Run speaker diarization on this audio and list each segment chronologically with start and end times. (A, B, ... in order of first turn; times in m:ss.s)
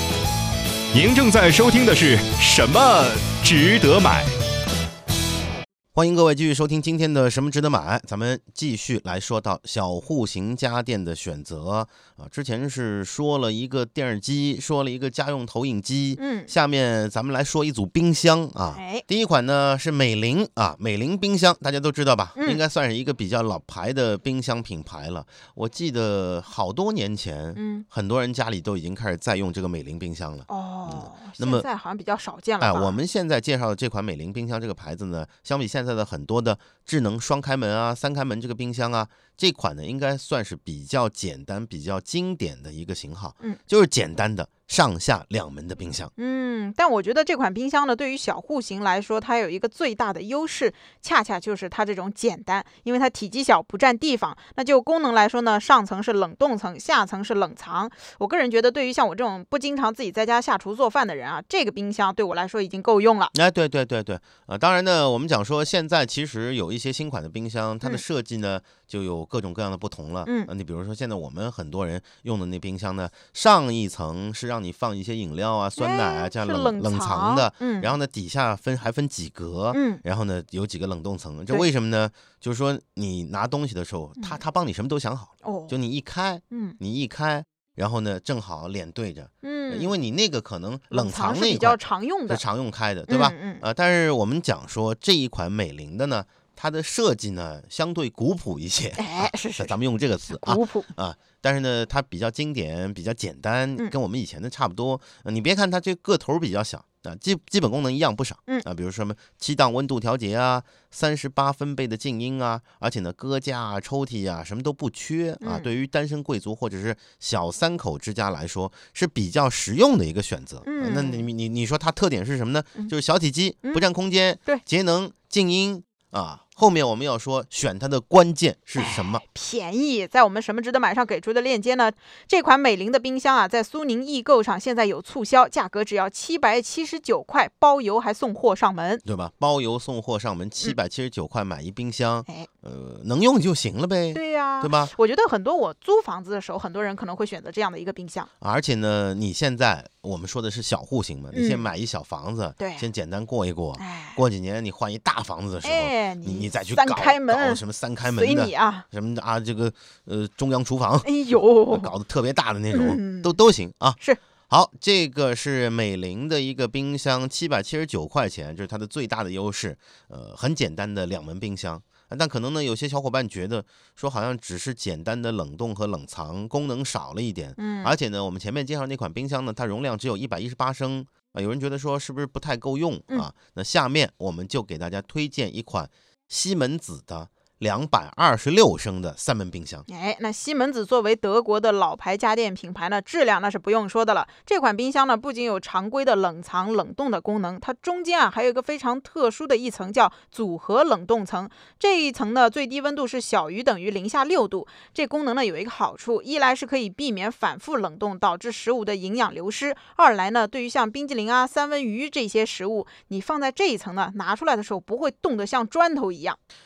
0:00.9-0:04.3 A
0:05.9-0:31.7 B
0:16.2-0:16.5 C
0:18.7-0:19.0 C
0:22.4-0:22.6 C
0:27.6-0:27.9 C
0:30.5-0:33.0 C
0:32.6-0:46.1 B
0:46.2-1:03.3 C
1:03.3-2:09.2 B
1:10.2-1:10.5 C
1:15.8-1:17.9 C
1:19.7-1:20.0 C
1:25.4-1:25.8 C
1:26.5-1:26.8 C
1:29.4-1:30.0 C
1:30.9-1:32.4 C
1:33.1-1:33.6 C
1:39.0-1:39.7 C
1:40.3-1:40.9 C
1:55.4-1:55.7 C
2:00.6-2:01.3 C
2:08.8-2:19.0 C
2:19.0-2:24.9 B
2:24.1-2:28.3 C
2:28.4-3:09.8 B
2:31.3-2:31.7 C
2:32.6-2:32.9 C
2:33.8-2:34.2 C
2:35.6-2:38.9 C
2:41.0-2:41.9 C
2:42.7-2:43.4 C
2:57.6-2:57.9 C
3:09.9-3:36.4 C